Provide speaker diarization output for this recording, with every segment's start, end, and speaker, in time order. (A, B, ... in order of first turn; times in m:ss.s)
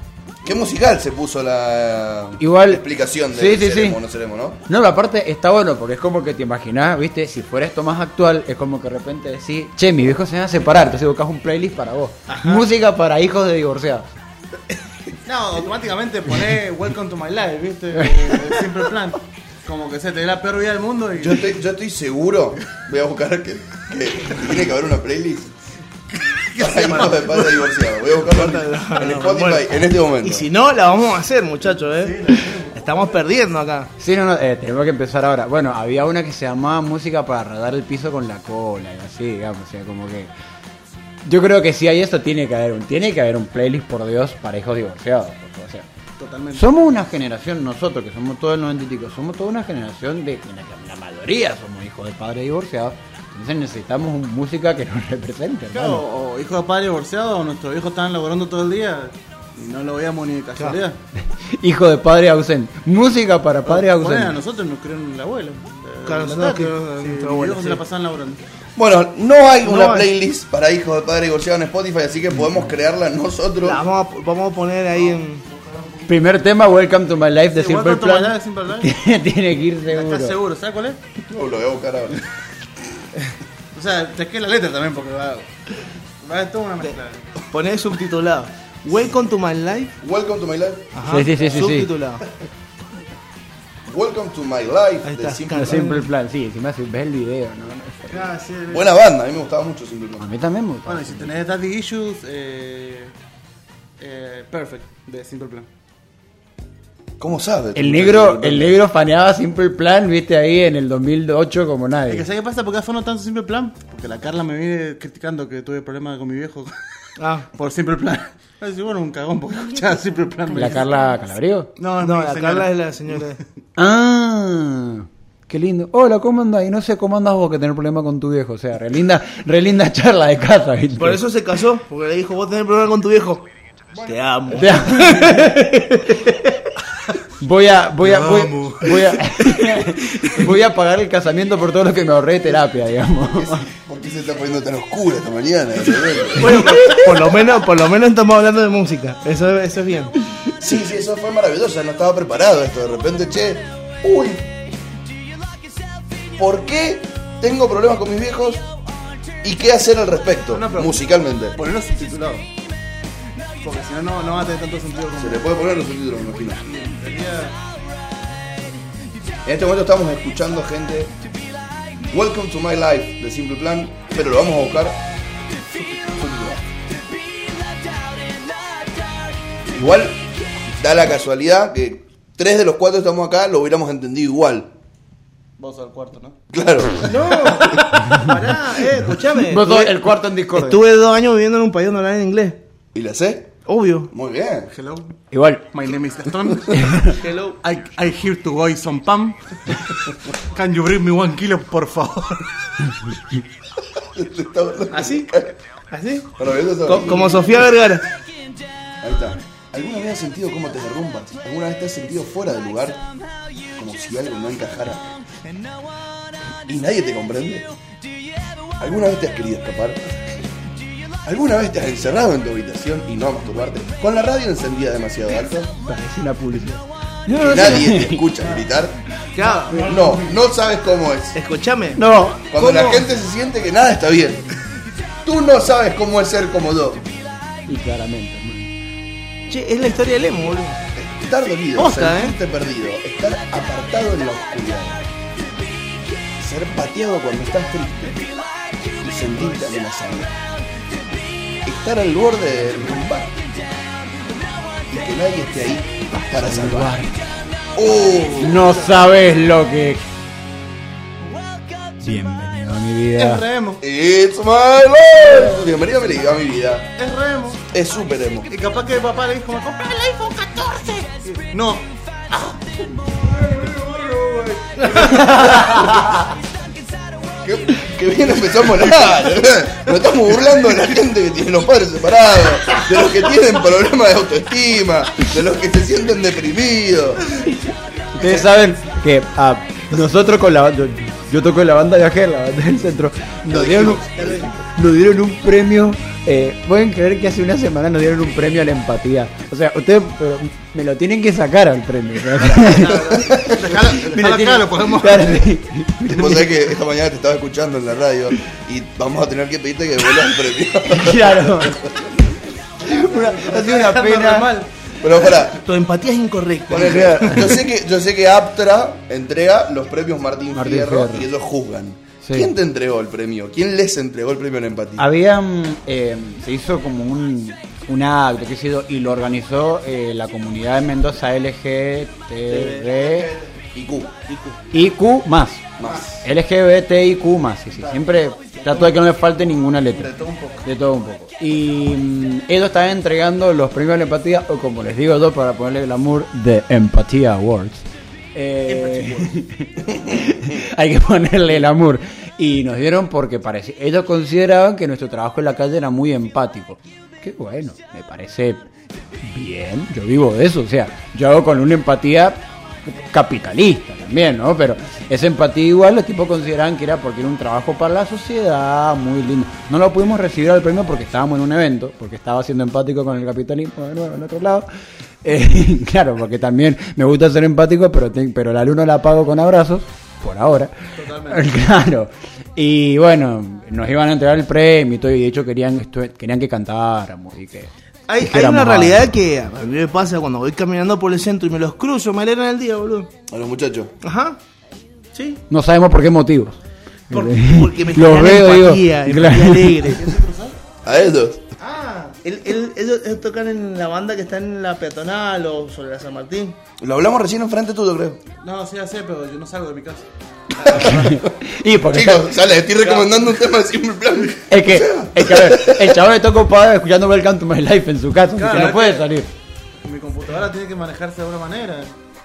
0:00.4-0:04.6 A
0:02.4-0:04.0 B
0:04.7-0:14.1 B
0:12.3-0:12.6 C
0:15.2-0:21.5 D
0:21.2-0:25.5 A
0:26.1-0:27.7 D
0:26.6-0:30.5 A
0:28.2-0:33.9 C
0:32.0-0:33.0 D
0:34.0-0:40.3 B
0:41.2-0:45.8 B
0:46.2-0:46.7 D
0:46.5-0:56.0 B
0:55.7-1:01.0 D
1:01.3-1:04.4 B
1:03.6-1:08.4 D
1:06.0-1:07.8 C
1:08.8-1:13.8 A
1:09.6-1:10.1 C
1:13.6-1:15.4 C
1:15.0-1:16.2 D
1:16.1-1:20.4 B
1:17.5-1:18.9 D
1:19.9-1:21.0 D
1:21.3-1:22.2 A
1:23.7-1:25.5 D
1:26.2-1:27.3 D
1:27.5-1:29.9 C
1:30.0-1:31.0 A
1:30.9-1:32.2 C
1:31.0-1:31.9 B
1:33.8-1:35.8 A
1:35.0-1:36.1 C
1:35.6-1:38.3 B
1:38.1-1:38.9 D
1:38.7-1:40.2 A
1:40.2-1:41.3 B
1:40.8-1:43.1 D
1:44.0-1:45.7 D
1:47.2-1:48.8 A
1:47.8-1:52.3 B
1:52.1-2:01.0 D
1:57.2-1:57.5 C
2:00.5-2:01.7 B
2:01.8-2:03.2 D
2:02.0-2:03.4 C
2:03.8-2:11.2 B
2:11.0-2:16.5 C
2:14.5-2:16.2 B
2:17.4-2:23.7 B
2:18.0-2:19.2 C
2:23.7-2:26.7 A
2:26.3-2:30.1 C
2:26.7-2:27.0 B
2:30.6-2:34.6 A
2:36.4-2:38.6 A
2:39.4-2:41.6 A
2:40.5-2:42.4 D
2:43.6-2:45.4 D
2:45.1-2:46.7 A
2:46.6-2:47.6 D
2:49.4-2:51.1 A
2:52.1-2:55.0 A
2:56.1-2:56.6 A
2:59.7-3:00.2 A
3:00.8-3:04.7 A
3:05.6-3:06.4 D
3:06.5-3:07.8 A
3:07.0-3:12.6 C
3:09.4-3:10.8 B
3:12.9-3:13.6 A
3:13.6-3:14.1 C
3:14.1-3:14.7 A
3:14.7-3:15.1 D
3:15.3-3:15.7 B
3:15.7-3:19.9 D
3:16.7-3:17.1 B
3:17.1-3:17.6 C
3:20.5-3:22.5 D
3:24.1-3:25.5 A
3:24.9-3:25.3 C
3:25.9-3:26.3 C
3:26.4-3:27.6 A
3:26.8-3:28.1 C
3:29.0-3:33.0 A
3:33.8-3:35.1 A
3:36.6-3:37.7 A
3:38.8-3:40.0 A
3:41.2-3:45.7 A
3:45.8-3:48.2 B
3:47.4-3:49.0 A
3:49.3-3:50.3 C
3:49.6-3:49.9 B
3:49.8-3:51.4 A
3:51.3-3:52.0 C
3:52.0-3:52.5 B
3:52.5-3:54.4 A
3:52.6-3:53.0 C
3:55.2-3:57.0 A
3:57.7-3:58.7 B
3:59.5-4:00.8 C
4:01.0-4:05.0 A
4:01.8-4:02.4 C
4:06.4-4:08.3 A
4:08.9-4:10.4 A
4:11.6-4:13.4 A
4:14.9-4:16.9 A
4:16.2-4:17.2 B
4:17.7-4:18.7 A
4:18.4-4:20.0 B
4:22.0-4:23.4 B
4:23.2-4:23.8 D
4:23.8-4:26.9 A
4:27.0-4:27.6 D
4:27.7-4:28.5 A
4:28.5-4:31.9 D
4:33.3-4:35.6 D
4:35.1-4:36.2 B
4:37.4-4:47.4 A
4:48.1-4:54.0 B
4:53.5-4:54.5 A
4:54.1-4:54.5 C
4:54.6-5:06.6 B
5:02.5-5:05.5 D
5:06.1-5:11.9 A
5:10.9-5:11.8 B
5:12.8-5:14.7 D
5:12.8-5:14.5 B
5:15.0-5:15.6 A
5:15.4-5:17.6 C
5:16.7-5:25.0 A
5:20.5-5:21.3 B
5:22.2-5:22.5 B
5:25.0-5:33.3 B
5:32.5-5:33.5 C
5:33.7-5:34.1 A
5:34.3-5:34.6 C
5:34.7-5:58.7 B
5:35.8-5:36.2 A
5:37.8-5:38.0 D
5:38.6-5:38.9 C
5:40.0-5:40.6 D
5:48.6-5:49.3 C
5:59.2-6:14.7 B
6:15.2-6:29.1 B
6:21.0-6:21.5 D
6:28.1-6:33.1 C
6:33.3-6:33.9 A
6:34.0-6:34.4 C
6:35.1-6:35.4 C
6:35.5-6:36.6 B
6:37.1-6:39.9 B
6:37.1-6:40.1 C
6:39.8-6:40.6 D
6:40.8-6:41.4 A
6:41.6-6:42.2 D
6:42.2-6:46.6 C
6:46.8-6:48.2 A
6:48.4-6:50.1 D
6:50.6-6:51.1 D
6:50.6-6:51.3 A
6:50.7-6:52.3 B
6:51.9-6:56.0 A
6:54.5-6:59.3 B
6:58.3-6:59.1 D
6:59.8-7:01.9 D